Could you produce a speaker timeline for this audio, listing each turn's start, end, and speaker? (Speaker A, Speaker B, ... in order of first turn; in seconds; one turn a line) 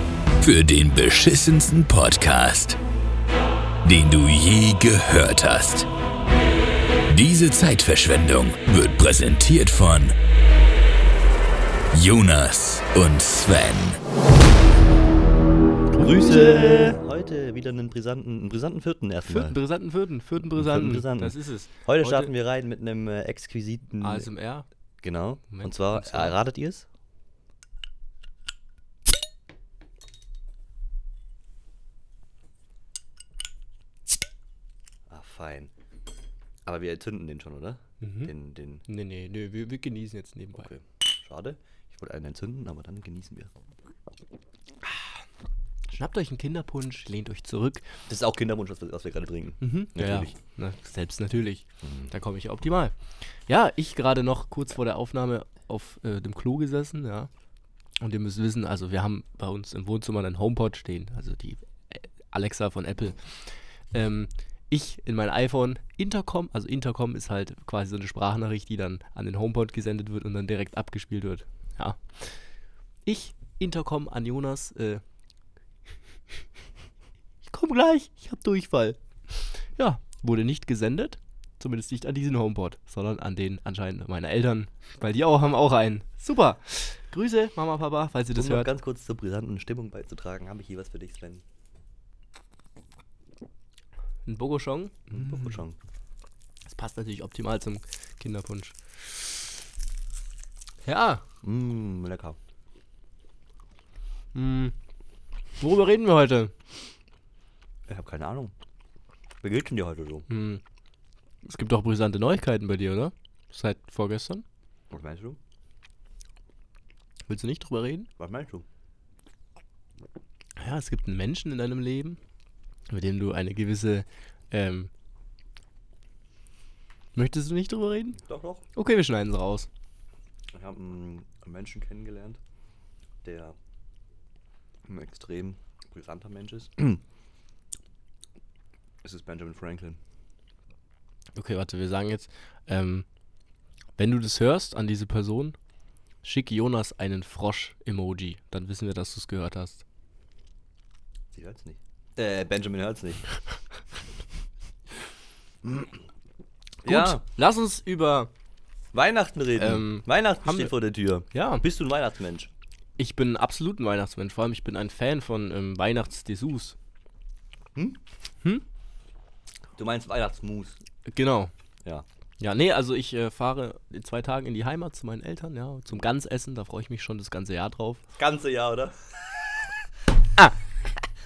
Speaker A: 0.4-2.8
Speaker A: 3.8-5.9
Speaker A: 7.1-10.2
Speaker A: 11.9-14.0
Speaker B: 15.9-16.9
Speaker C: 16.0-19.6
Speaker B: 19.2-22.3
Speaker C: 20.4-24.3
Speaker B: 24.0-24.6
Speaker C: 25.0-26.9
Speaker B: 25.5-26.4
Speaker C: 35.1-35.7
Speaker C: 36.6-38.8
Speaker B: 38.0-38.3
Speaker B: 38.9-40.7
Speaker C: 40.5-43.5
Speaker B: 46.0-47.9
Speaker C: 48.1-50.4
Speaker B: 49.6-57.3
Speaker C: 51.8-52.1
Speaker B: 58.0-72.4
Speaker B: 73.0-75.0
Speaker B: 77.4-88.7
Speaker C: 88.3-91.4
Speaker B: 94.2-95.6
Speaker C: 95.1-95.8
Speaker B: 96.7-99.4
Speaker B: 100.8-101.2
Speaker C: 101.4-102.4
Speaker B: 104.3-104.7
Speaker B: 105.6-106.5
Speaker C: 107.9-108.5
Speaker C: 109.4-110.2
Speaker B: 110.3-110.6
Speaker B: 111.4-114.4
Speaker C: 114.9-115.4
Speaker B: 117.3-118.1
Speaker C: 118.2-118.6
Speaker B: 120.6-122.2
Speaker B: 122.9-124.9
Speaker B: 127.1-128.2
Speaker C: 128.2-128.7
Speaker B: 128.7-129.7
Speaker C: 130.5-132.4
Speaker C: 133.2-133.6
Speaker C: 134.8-137.0
Speaker C: 139.0-140.0
Speaker B: 141.3-143.1
Speaker B: 144.0-145.6
Speaker B: 146.2-149.8
Speaker C: 151.3-153.3
Speaker C: 155.6-155.9
Speaker C: 156.8-157.2
Speaker B: 156.8-158.3
Speaker C: 158.9-162.5
Speaker B: 159.6-160.7
Speaker B: 161.3-161.7
Speaker B: 163.0-166.8
Speaker C: 167.7-168.0
Speaker C: 169.8-170.8
Speaker B: 171.1-171.5
Speaker B: 172.4-178.0
Speaker C: 178.2-179.2